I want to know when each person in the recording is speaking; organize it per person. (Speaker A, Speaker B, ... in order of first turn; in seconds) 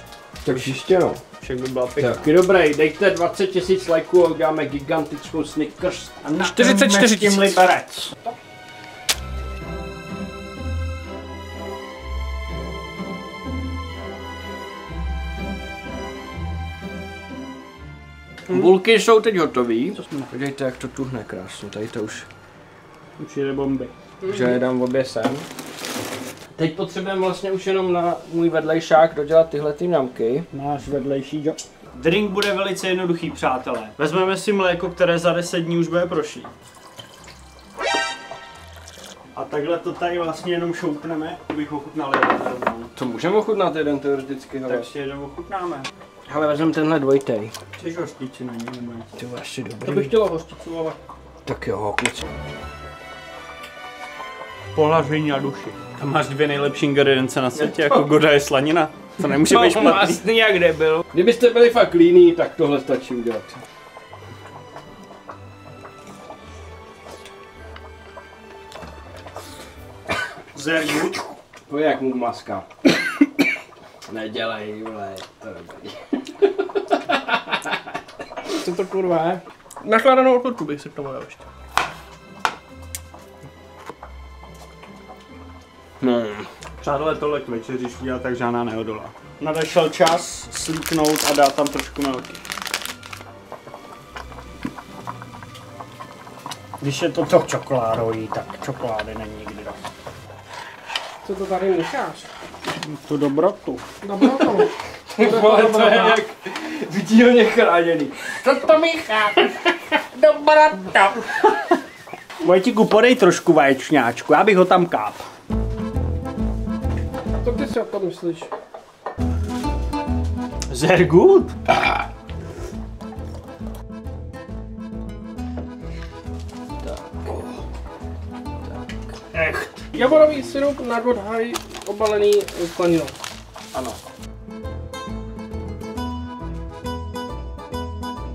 Speaker A: 0.4-1.2, 2.0-6.2, 18.5-22.2, 24.3-25.4, 26.6-30.5, 42.9-44.9, 46.3-47.5, 49.2-50.1, 51.5-52.2, 57.6-58.0, 59.2-63.6, 71.7-72.7, 74.1-76.0, 86.0-86.5, 105.1-108.8, 110.2-110.5, 126.8-127.6
Speaker B: 1.4-2.3, 6.2-8.1, 18.5-18.7, 19.9-20.3, 23.2-23.9, 30.5-36.5, 39.3-42.9, 44.6-45.9, 47.8-49.1, 54.7-60.2, 70.5-71.2, 86.8-92.4, 96.8-99.8, 102.7-103.8, 112.4-115.2, 120.7-121.5, 129.3-130.2
Speaker C: 6.4-7.6, 24.2-24.5, 49.8-51.0, 78.5-81.4, 101.2-102.3, 104.0-106.2, 108.5-109.3, 110.5-111.0, 117.4-118.5, 129.9-133.1